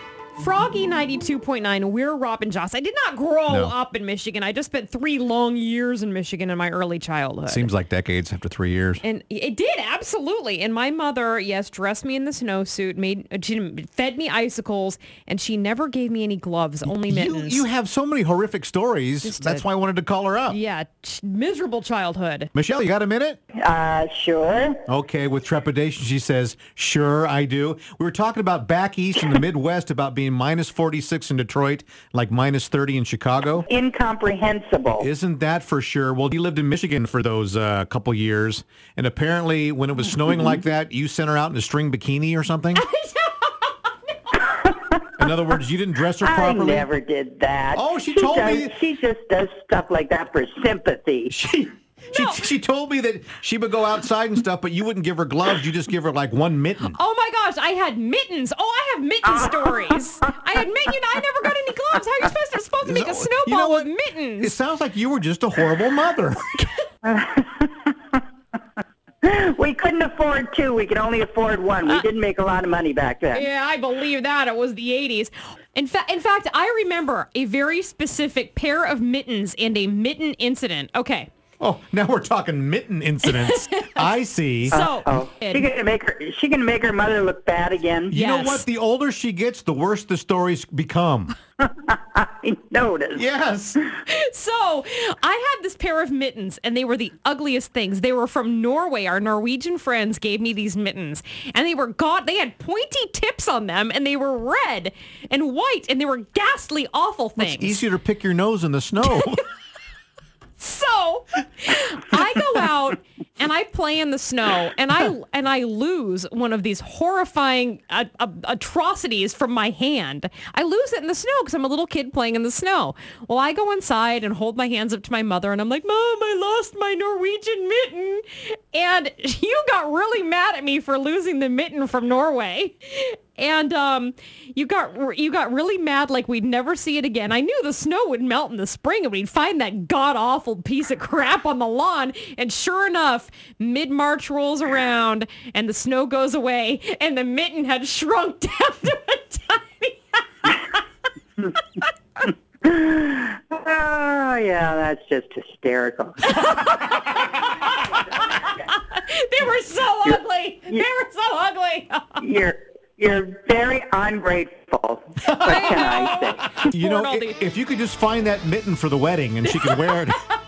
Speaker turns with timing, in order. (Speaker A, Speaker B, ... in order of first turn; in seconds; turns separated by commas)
Speaker A: 0.4-7.7, Speaker B: 3.5-3.7, Speaker B: 7.5-9.0, Speaker A: 9.0-17.6, Speaker B: 16.9-20.6, Speaker A: 19.2-19.6, Speaker A: 20.5-22.5, Speaker B: 22.5-23.4, Speaker C: 23.6-24.8, Speaker B: 24.9-33.7, Speaker C: 33.7-35.1, Speaker B: 35.0-42.9, Speaker A: 42.7-44.5, Speaker C: 44.4-45.3, Speaker B: 45.2-46.9, Speaker C: 46.2-51.3, Speaker B: 47.7-48.7, Speaker B: 51.3-57.0, Speaker A: 52.1-52.4, Speaker A: 56.9-64.5, Speaker C: 59.4-60.0, Speaker B: 62.8-66.6, Speaker C: 67.0-68.2, Speaker C: 69.2-73.5, Speaker A: 73.3-81.3, Speaker B: 81.6-84.8, Speaker A: 83.2-84.0, Speaker A: 84.7-85.7, Speaker C: 84.7-88.2, Speaker B: 88.1-91.3, Speaker A: 88.1-88.6, Speaker C: 91.6-93.2, Speaker B: 93.1-93.8, Speaker A: 94.1-107.8, Speaker B: 107.4-109.4, Speaker A: 109.0-109.3, Speaker A: 110.6-150.8, Speaker C: 152.6-156.3, Speaker A: 156.2-162.2, Speaker C: 162.2-166.6, Speaker B: 165.2-165.8, Speaker A: 165.2-167.4, Speaker B: 166.7-170.2, Speaker A: 169.6-170.2